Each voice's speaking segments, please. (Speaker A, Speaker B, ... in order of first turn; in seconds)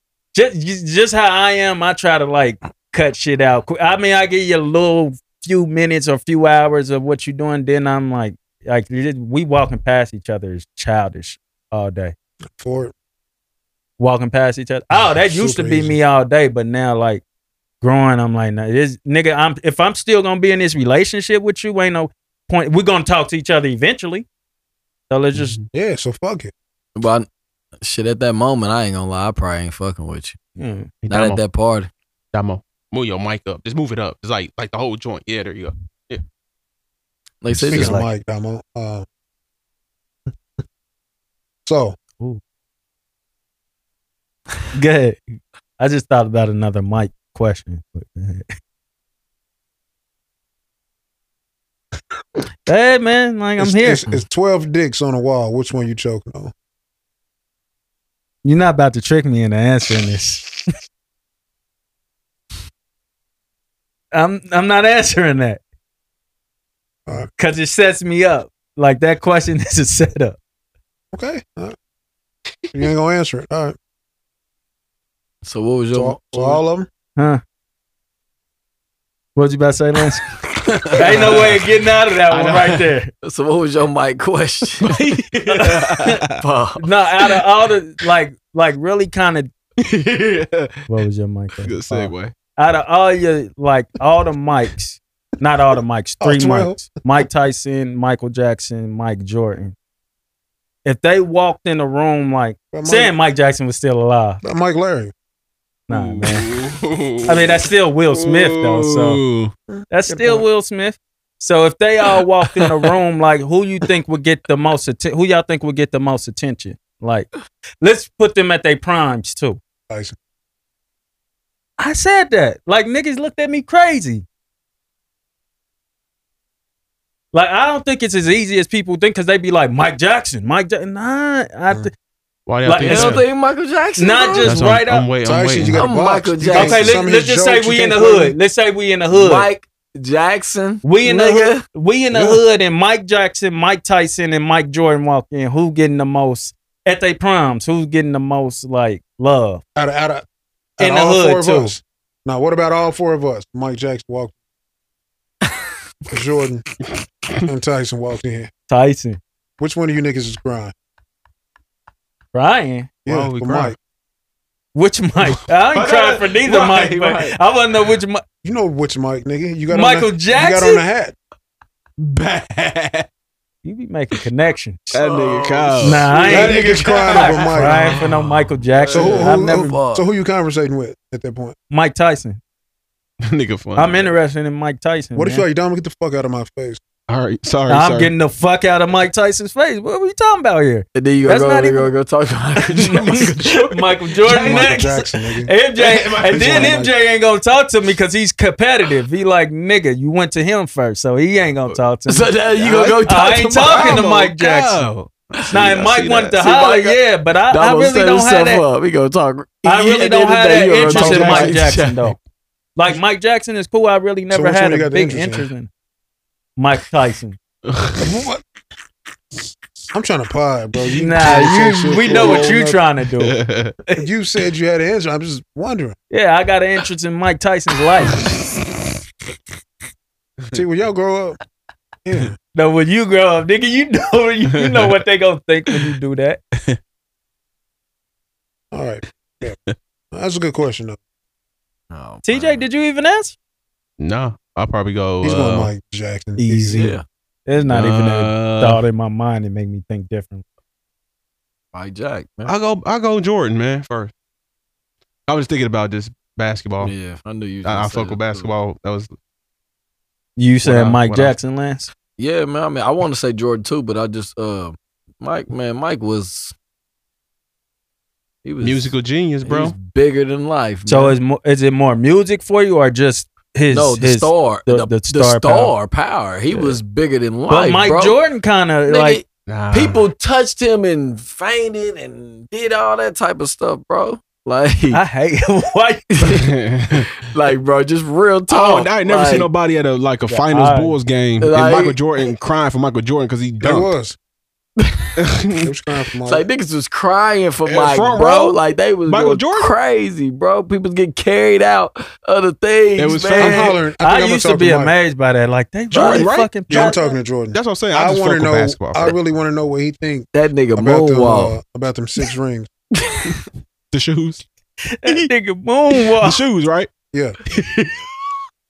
Speaker A: 0.3-12.2, 14.0-17.2, 17.8-24.3, 25.1-25.6, 30.6-30.9, 37.7-38.1, 44.7-48.5, 52.7-54.1, 58.4-60.5, 64.1-65.6, 67.4-70.4, 79.4-80.2, 81.0-83.1, 85.5-86.2, 86.8-89.5, 90.9-99.8, 100.8-104.4, 105.9-106.5, 107.3-109.2, 109.9-117.3, 117.8-119.6, 121.8-124.2, 127.3-131.9, 132.6-133.2, 134.0-135.1, 136.5-139.5, 140.8-149.6, 150.8-151.7, 158.7-159.2, 162.3-162.9, 164.8-168.2, 169.7-170.8, 173.6-174.8, 175.8-179.7, 181.7-182.4, 183.8-185.5, 187.7-191.9, 192.9-204.9, 205.5-208.7, 209.7-212.2, 212.8-215.7, 216.6-217.4, 220.9-223.4, 226.1-228.2, 232.5-236.4, 242.2-243.4, 246.4-246.8, 247.5-250.4, 260.4-261.9, 270.9-275.7, 277.5-279.2, 284.9-286.1, 290.3-291.0, 304.0-307.0, 315.0-316.4
Speaker B: 12.6-12.9, 15.2-16.0, 25.7-26.5, 37.7-39.1, 41.6-42.0, 53.6-56.5, 71.1-71.8, 72.7-73.8, 75.9-76.9, 96.2-97.0, 102.7-103.1, 104.4-105.1, 109.7-110.5, 119.9-120.2, 135.2-138.4, 149.8-150.2, 150.8-154.4, 156.1-156.7, 157.4-158.5, 159.6-160.7, 163.1-163.8, 168.4-171.2, 176.2-178.0, 178.9-181.6, 185.2-186.8, 194.3-195.5, 196.3-196.9, 214.3-215.5, 218.0-218.4, 219.9-222.8, 224.0-226.0, 230.5-231.4, 232.1-232.4, 238.7-239.6, 240.1-241.0, 245.2-247.0, 293.6-294.2, 295.6-296.5, 303.4-304.9, 306.7-312.7, 317.1-317.4
Speaker C: 25.4-25.6, 31.0-31.4, 32.3-36.2, 81.0-81.6, 82.3-82.8, 84.8-86.4, 89.8-90.8, 91.6-92.3, 105.9-109.5, 132.5-133.3, 134.4-135.9, 163.1-163.8, 165.7-167.4, 172.0-173.1, 174.9-178.5, 183.2-184.1, 187.1-188.1, 192.7-194.9, 195.7-196.9, 202.6-206.4, 210.7-211.7, 217.7-218.1, 222.1-222.5, 223.2-223.7, 228.1-228.5, 234.5-235.0, 244.0-245.7, 247.6-248.8, 252.5-254.1, 255.3-256.9, 257.6-259.1, 260.6-261.4, 268.6-269.8, 279.5-280.0, 286.3-287.1, 288.5-293.9, 295.2-295.7, 297.7-299.8, 303.0-303.8, 305.9-307.0, 307.5-309.2, 313.9-314.4, 316.1-316.9, 317.6-317.9
Speaker D: 27.0-27.3, 27.8-30.4, 31.1-31.9, 37.4-38.0, 75.4-76.6, 80.6-81.5, 83.2-85.0, 86.4-86.9, 132.8-134.7, 135.7-137.0, 139.1-141.7, 174.9-176.4, 178.8-180.1, 190.9-193.6, 202.1-204.1, 206.4-212.1, 241.9-242.7, 246.7-247.1, 251.7-252.5, 256.8-258.5, 262.2-266.6, 268.4-271.2, 273.7-278.2, 278.9-285.0, 286.2-286.5, 287.2-289.5, 291.4-292.0, 294.8-295.1, 296.3-303.7, 305.9-306.3, 310.3-311.6